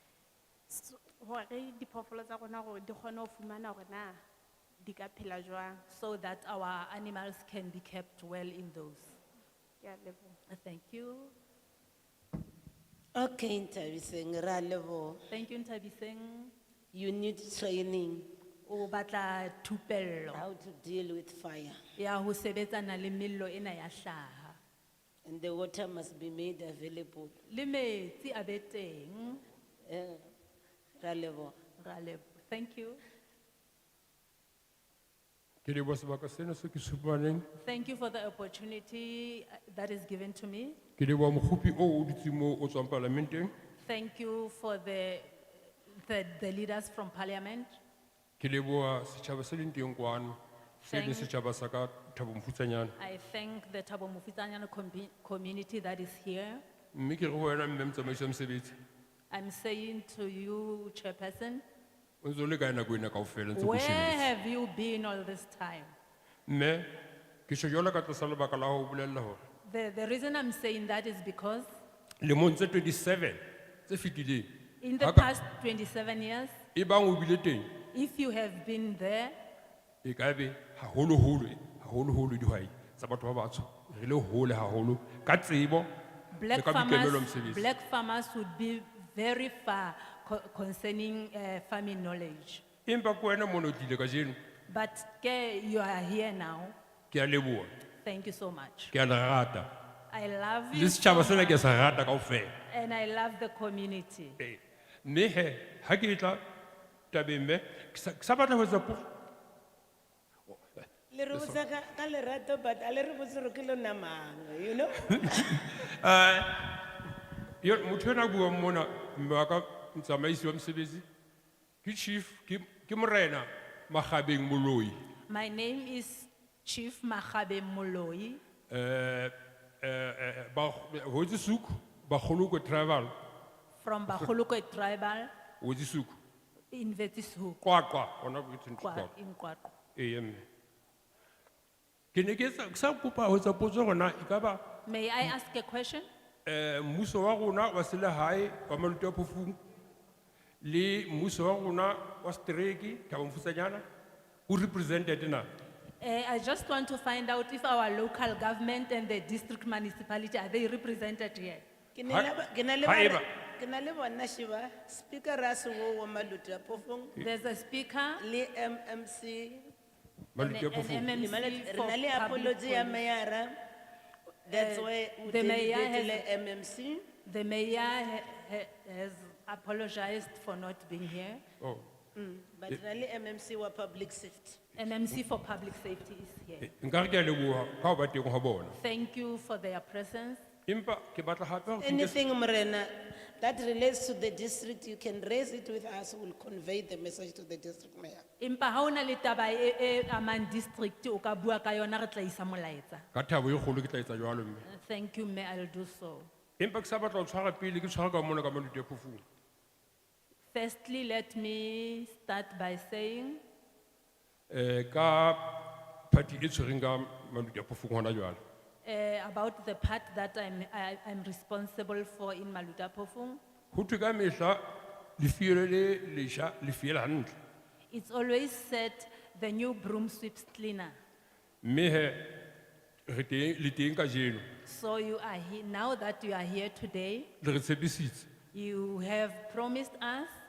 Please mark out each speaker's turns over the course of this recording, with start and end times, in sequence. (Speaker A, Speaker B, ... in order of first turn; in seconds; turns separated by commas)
Speaker A: 0.7-4.2, Speaker A: 4.8-5.8, Speaker B: 5.9-9.2, Speaker A: 9.8-10.4, Speaker B: 10.5-11.3, Speaker C: 13.2-15.2, Speaker B: 15.3-16.5, Speaker C: 16.9-18.3, Speaker B: 18.7-20.4, Speaker C: 20.3-21.8, Speaker B: 22.0-24.6, Speaker C: 25.3-27.4, Speaker B: 27.5-29.4, Speaker C: 29.9-30.2, Speaker C: 31.0-31.6, Speaker B: 31.8-33.0, Speaker D: 35.6-37.5, Speaker B: 37.6-40.8, Speaker D: 41.0-43.5, Speaker B: 43.8-47.8, Speaker D: 48.4-53.0, Speaker B: 50.8-51.3, Speaker B: 53.0-56.6, Speaker D: 56.9-58.7, Speaker B: 59.3-61.6, Speaker D: 62.2-64.3, Speaker B: 63.5-65.9, Speaker D: 66.5-66.9, Speaker D: 67.5-69.4, Speaker B: 69.6-71.7, Speaker D: 72.2-74.5, Speaker B: 74.8-76.5, Speaker D: 75.0-75.3, Speaker D: 76.7-77.7, Speaker B: 77.9-79.3, Speaker D: 80.0-85.9, Speaker B: 86.3-92.6, Speaker D: 86.5-87.7, Speaker D: 92.9-94.4, Speaker B: 94.7-96.8, Speaker D: 97.1-97.7, Speaker B: 98.0-99.0, Speaker D: 98.9-99.7, Speaker B: 100.1-101.5, Speaker D: 100.7-102.5, Speaker B: 102.7-104.4, Speaker D: 104.4-106.4, Speaker D: 107.1-109.1, Speaker C: 111.1-115.5, Speaker D: 115.1-116.9, Speaker D: 117.6-121.0, Speaker D: 121.8-125.0, Speaker B: 125.3-128.4, Speaker D: 128.7-133.1, Speaker B: 133.8-135.3, Speaker D: 135.6-136.2, Speaker B: 136.7-137.6, Speaker D: 137.6-139.1, Speaker B: 138.8-139.7, Speaker D: 140.0-140.4, Speaker D: 142.1-144.6, Speaker B: 144.9-146.1, Speaker D: 146.5-149.6, Speaker D: 150.6-153.8, Speaker D: 154.5-155.5, Speaker B: 156.0-161.6, Speaker C: 161.9-167.2, Speaker D: 162.8-163.2, Speaker B: 167.2-168.2, Speaker C: 168.2-169.7, Speaker D: 170.3-171.1, Speaker B: 170.4-173.0, Speaker C: 171.1-173.6, Speaker C: 174.5-177.1, Speaker B: 174.5-176.2, Speaker B: 177.2-181.4, Speaker D: 181.6-181.9, Speaker C: 182.2-184.7, Speaker B: 184.8-186.7, Speaker D: 186.6-188.8, Speaker B: 188.7-190.4, Speaker D: 190.7-192.2, Speaker C: 191.8-198.2, Speaker B: 198.4-203.1, Speaker D: 203.1-204.7, Speaker B: 204.7-206.3, Speaker D: 206.6-209.2, Speaker B: 210.5-213.4, Speaker D: 214.5-218.4, Speaker B: 218.8-223.4, Speaker D: 223.7-224.6, Speaker D: 225.2-227.3, Speaker B: 227.9-230.9, Speaker D: 231.6-232.4, Speaker D: 233.1-234.4, Speaker B: 234.6-237.3, Speaker D: 237.4-238.3, Speaker B: 238.5-240.3